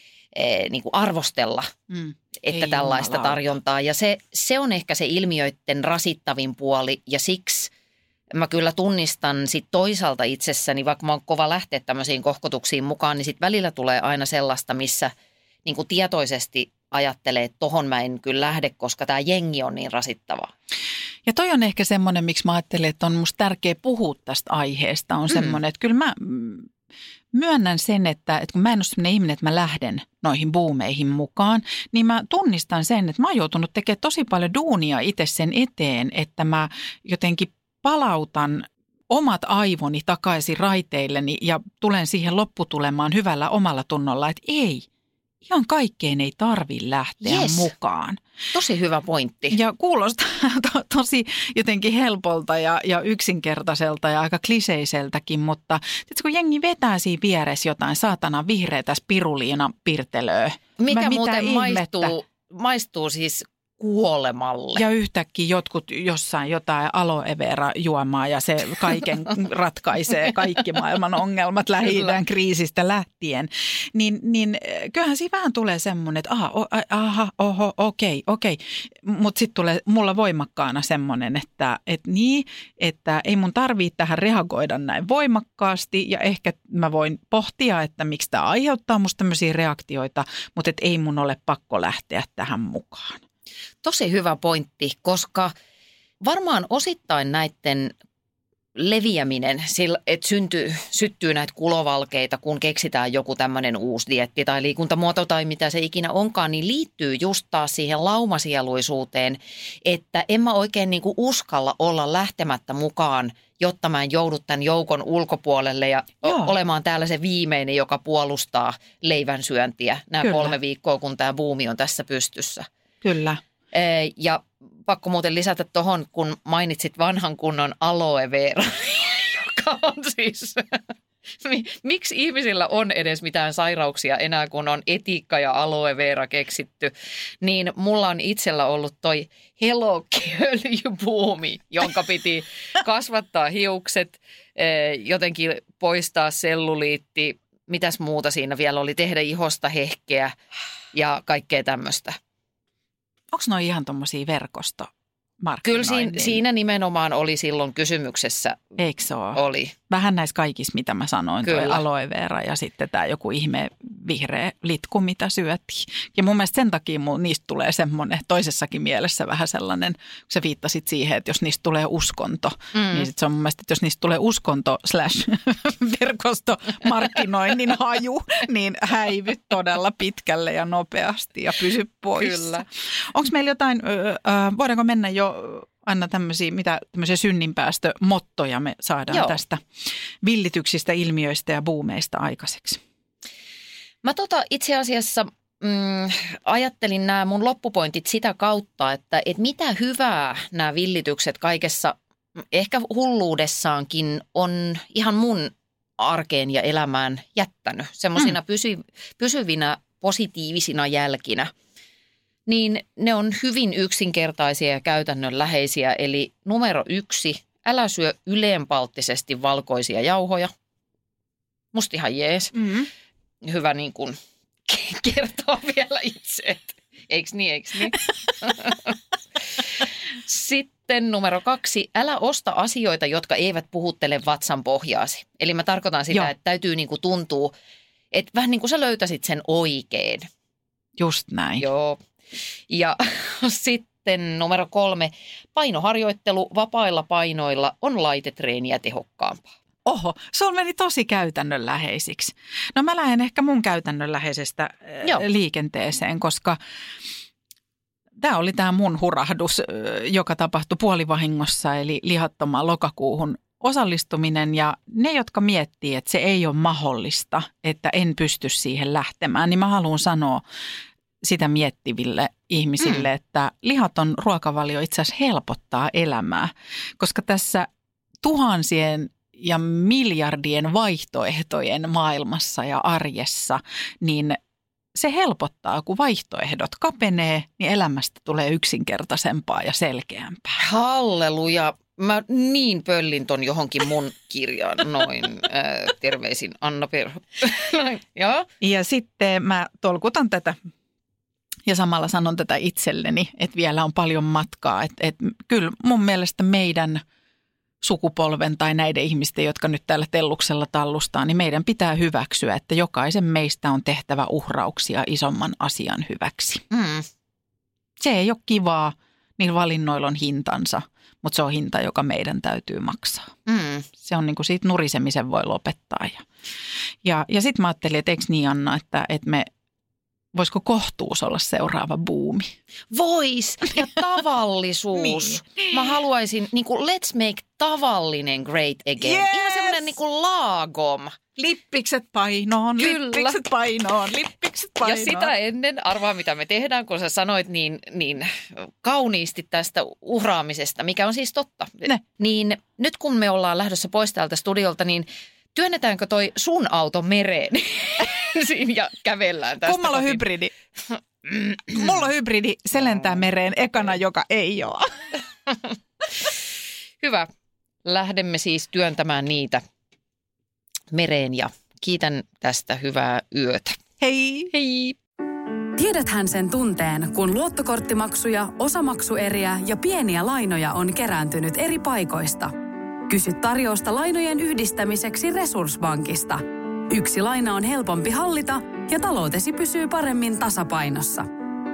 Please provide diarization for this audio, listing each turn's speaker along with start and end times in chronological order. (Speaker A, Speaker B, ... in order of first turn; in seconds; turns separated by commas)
Speaker A: 0.3-1.7, Speaker B: 1.9-3.4, Speaker A: 2.4-7.7, Speaker A: 8.3-15.1, Speaker A: 15.6-20.5, Speaker B: 21.2-26.7, Speaker A: 25.3-25.6, Speaker B: 27.3-44.9, Speaker B: 45.4-48.2, Speaker A: 47.2-47.7, Speaker A: 48.5-49.6, Speaker B: 49.5-62.1, Speaker A: 60.8-64.8, Speaker B: 64.8-93.2, Speaker A: 93.8-95.5, Speaker A: 96.2-97.9, Speaker A: 98.8-122.7, Speaker B: 116.2-116.5, Speaker B: 120.2-120.5, Speaker B: 123.0-123.4, Speaker A: 123.7-130.8, Speaker A: 131.4-150.3, Speaker A: 150.9-152.2, Speaker B: 153.3-156.4, Speaker A: 155.6-158.8, Speaker B: 158.8-189.6, Speaker A: 159.3-159.7, Speaker A: 161.4-161.8, Speaker A: 172.7-173.1, Speaker A: 182.2-182.7, Speaker A: 189.1-189.4, Speaker B: 190.2-192.8, Speaker A: 194.0-201.9, Speaker A: 202.5-211.5, Speaker A: 212.5-220.5, Speaker A: 221.7-222.6, Speaker B: 222.5-222.9, Speaker A: 223.4-228.9, Speaker A: 229.6-237.5, Speaker A: 238.1-240.3, Speaker B: 241.0-241.7, Speaker A: 241.6-242.0, Speaker A: 242.7-249.5, Speaker B: 249.8-256.6, Speaker B: 258.2-270.4, Speaker B: 271.2-277.7, Speaker A: 272.8-273.1, Speaker B: 278.2-284.4, Speaker B: 284.9-290.6, Speaker A: 290.6-298.5, Speaker B: 298.6-300.6, Speaker B: 301.6-307.0, Speaker B: 307.8-316.6, Speaker A: 316.7-317.1, Speaker B: 318.0-323.3, Speaker A: 323.5-323.9, Speaker B: 324.0-326.2, Speaker B: 327.0-329.5, Speaker B: 330.3-332.5, Speaker A: 332.9-341.2, Speaker B: 334.9-336.0, Speaker B: 339.0-339.9, Speaker B: 341.4-345.3, Speaker A: 342.8-343.4, Speaker A: 344.8-360.2, Speaker B: 359.6-360.5, Speaker A: 360.9-362.0, Speaker B: 361.7-365.1, Speaker A: 367.0-367.3, Speaker A: 367.8-369.6, Speaker A: 370.9-373.8, Speaker B: 374.0-374.5, Speaker A: 374.5-374.9, Speaker C: 375.8-382.5, Speaker C: 383.1-391.3